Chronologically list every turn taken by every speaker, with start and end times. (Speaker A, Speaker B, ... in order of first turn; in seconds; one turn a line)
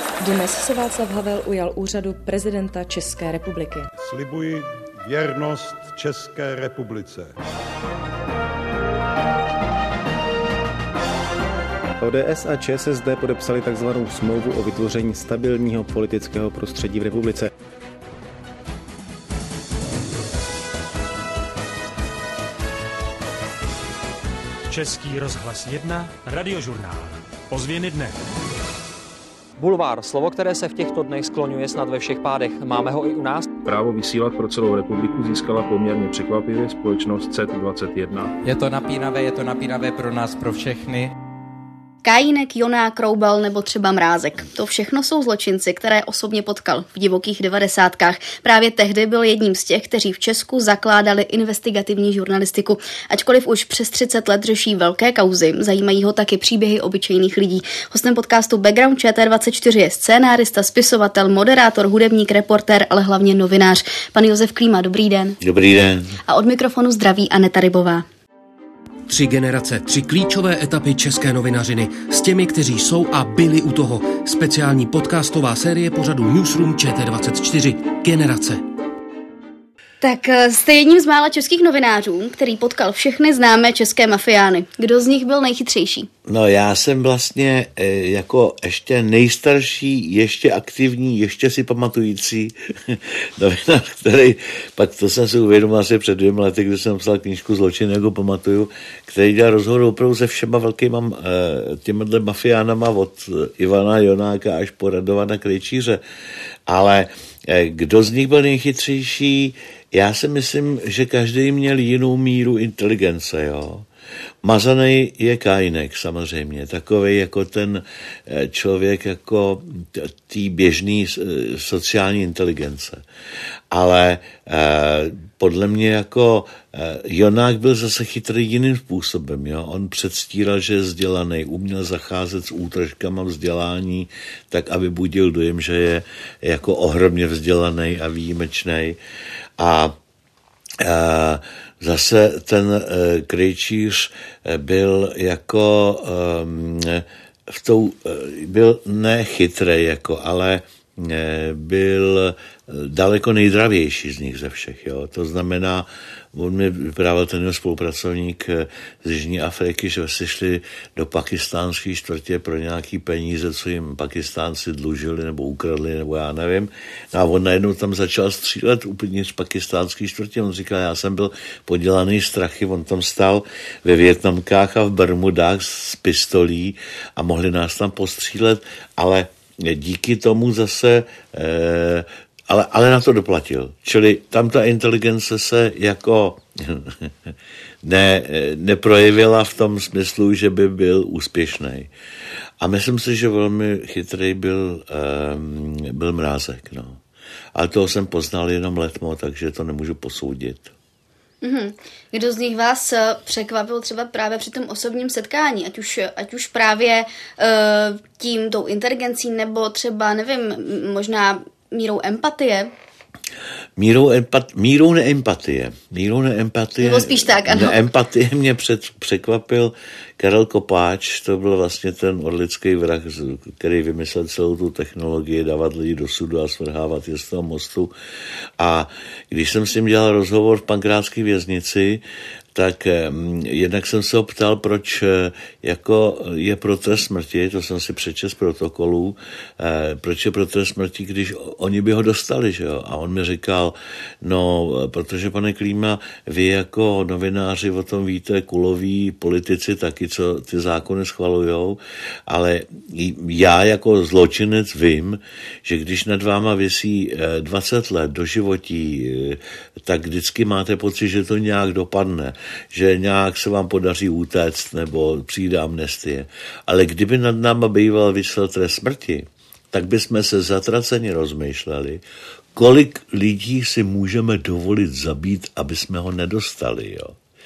Speaker A: 0.2-3.9
Speaker B: 4.0-7.4
Speaker C: 12.0-17.5
Speaker D: 24.7-28.1
Speaker E: 29.6-33.5
Speaker F: 33.6-38.3
Speaker G: 38.4-41.1
Speaker H: 42.0-65.4
Speaker I: 65.4-66.2
Speaker H: 66.3-68.0
Speaker J: 69.1-78.5
Speaker H: 80.0-86.1
Speaker I: 86.3-106.0
Speaker I: 106.7-113.8
Speaker I: 114.4-123.0
Speaker I: 123.7-139.0
Speaker I: 139.6-139.9
Speaker I: 140.8-191.9
Speaker I: 192.6-197.0
Speaker I: 197.5-200.7
Speaker H: 201.4-212.7
Speaker I: 213.8-227.9
Speaker H: 216.8-217.8
Speaker I: 228.6-232.0
Speaker I: 232.5-272.0
Speaker I: 272.5-277.2